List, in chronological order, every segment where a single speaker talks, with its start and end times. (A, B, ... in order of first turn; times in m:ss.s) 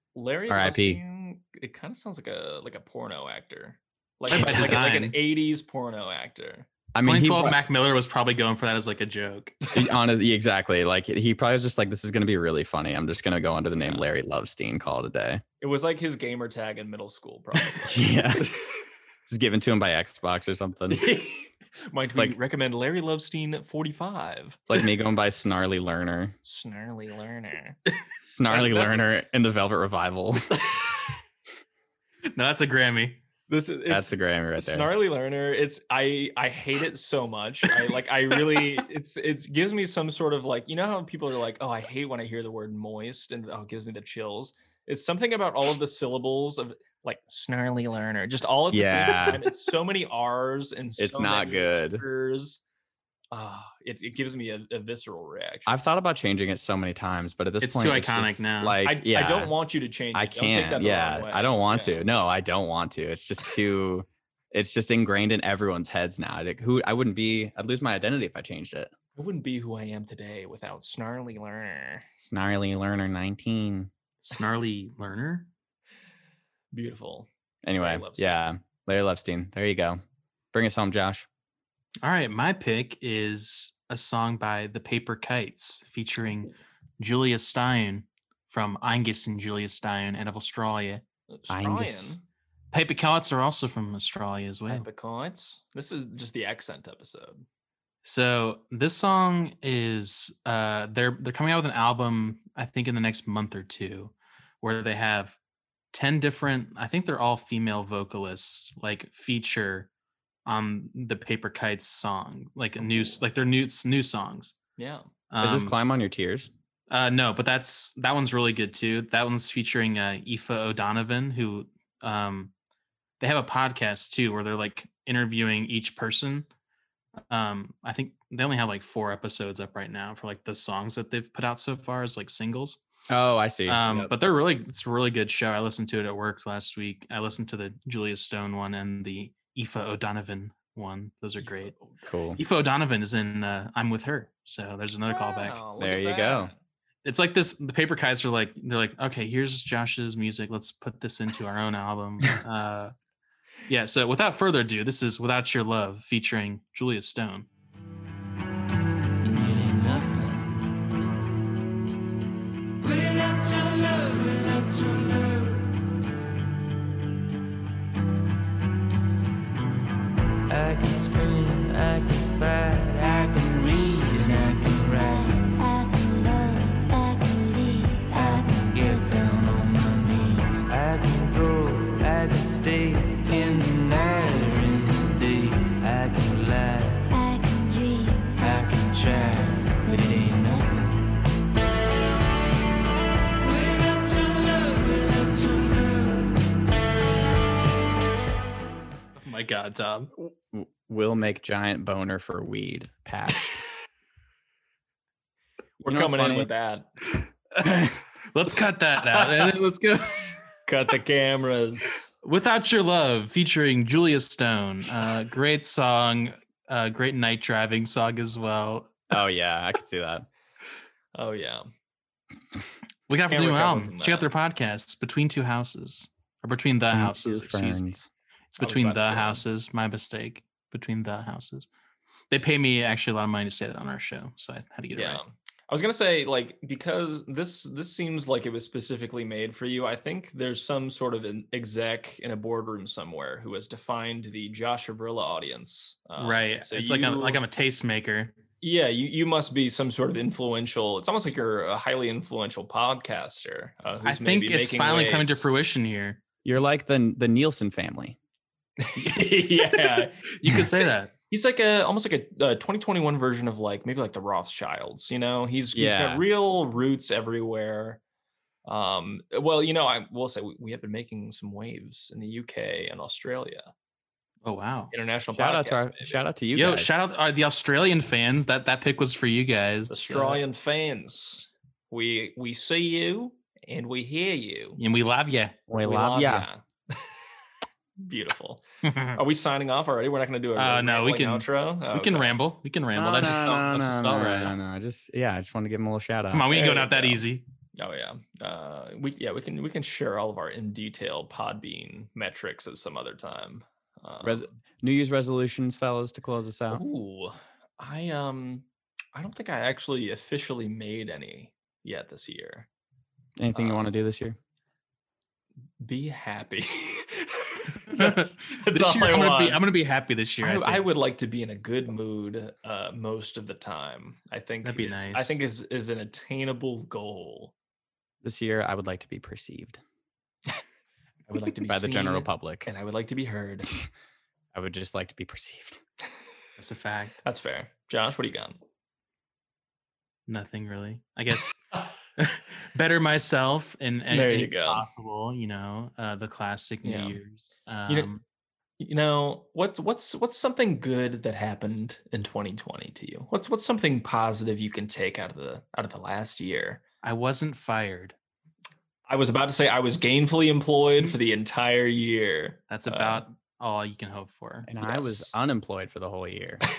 0:00.1-0:06.7 A
0:00.5-0:01.0 B
0:04.3-0:05.0 B
0:04.3-0:05.1 C
0:06.9-0:07.6 B
0:07.0-0:09.6 C
0:09.7-0:15.4 B
0:15.6-0:18.5 A
0:17.8-0:18.5 B
0:19.3-0:21.1 B
0:20.9-0:24.6 A
0:24.7-0:26.3 B
0:26.4-0:27.8 A
0:28.2-0:30.6 B
0:28.5-0:29.0 A
0:32.3-0:33.2 C
0:33.5-0:52.6 A
0:33.9-0:34.9 B
0:48.7-0:49.5 B
0:51.0-0:52.0 B
0:53.3-0:55.7 A
0:55.7-0:59.5 B
0:57.6-0:58.8 C
0:58.8-1:02.0 A
1:00.1-1:08.9 B
1:09.2-1:12.0 A
1:12.2-1:13.9 B
1:14.2-1:15.5 C
1:16.7-1:18.4 A
1:17.6-1:20.0 B
1:20.5-1:21.3 B
1:22.0-1:31.0 C
1:31.3-1:32.2 A
1:31.5-1:32.2 B
1:32.7-1:34.8 C
1:34.7-1:37.4 A
1:38.0-1:45.4 C
1:45.9-1:49.9 C
1:50.4-1:54.6 C
1:54.8-1:55.1 A
1:55.3-1:55.7 C
1:55.4-1:56.5 B
1:56.9-2:02.5 C
2:03.2-2:06.5 C
2:07.3-2:12.8 C
2:13.1-2:14.1 B
2:13.7-2:21.8 C
2:21.4-2:21.9 A
2:22.0-2:22.4 B
2:22.4-2:25.6 C
2:25.1-2:26.6 A
2:25.8-2:26.5 B
2:27.0-2:32.9 C
2:33.7-2:37.5 C
2:39.2-2:40.6 D
2:42.8-2:45.6 D
2:50.5-2:55.5 D
2:55.1-2:59.1 E
2:58.1-3:07.1 D
3:03.3-3:03.8 E
3:07.1-3:08.5 E
3:08.4-3:10.9 D
3:09.8-3:10.9 E
3:13.5-3:15.9 D
3:19.2-3:20.1 C
3:20.2-3:23.6 B
3:25.8-3:26.9 A
3:25.9-3:26.5 B
3:27.6-3:30.4 C
3:29.1-3:29.5 A
3:30.6-3:32.1 A
3:32.2-3:39.0 C
3:39.1-3:40.3 B
3:41.1-3:41.7 A
3:43.1-3:47.8 C
3:43.3-3:44.3 A
3:46.9-3:48.1 B
3:48.5-3:51.7 C
3:48.6-3:49.4 A
3:52.3-3:55.2 C
3:54.9-4:07.4 A
4:06.2-4:08.3 C
4:08.6-4:15.6 A
4:14.0-4:16.2 C
4:16.4-4:18.2 B
4:18.8-4:20.2 A
4:19.0-4:21.1 C
4:21.3-4:28.0 A
4:25.7-4:26.2 B
4:28.6-4:33.7 A
4:34.4-4:34.9 C
4:34.9-4:36.2 A
4:35.3-4:36.9 B
4:36.5-4:40.4 C
4:39.9-4:44.8 A
4:44.8-4:45.6 C
4:45.7-4:46.5 B
4:45.8-4:47.2 A
4:48.0-4:52.4 A
4:48.8-4:49.2 C
4:50.6-4:54.6 C
4:52.9-4:56.5 B
4:56.3-4:57.4 C
4:56.5-4:57.2 A
4:57.8-5:04.5 A
5:04.2-5:06.8 B
5:06.7-5:12.7 A
5:13.4-5:14.4 B
5:13.5-5:13.8 A
5:15.8-5:19.7 A
5:17.9-5:20.9 C
5:20.4-5:27.5 A
5:24.6-5:25.4 C
5:28.2-5:29.8 B
5:31.3-5:33.8 A
5:31.6-5:32.7 B
5:34.5-5:35.8 B
5:36.6-5:37.2 C
5:37.2-5:38.6 A
5:40.3-5:48.2 C
5:44.1-5:44.8 A
5:46.8-5:47.2 A
5:48.8-5:56.8 A
5:57.0-5:58.2 C
5:59.1-6:03.2 A
6:02.7-6:04.7 C
6:04.6-6:06.6 B
6:04.8-6:05.3 A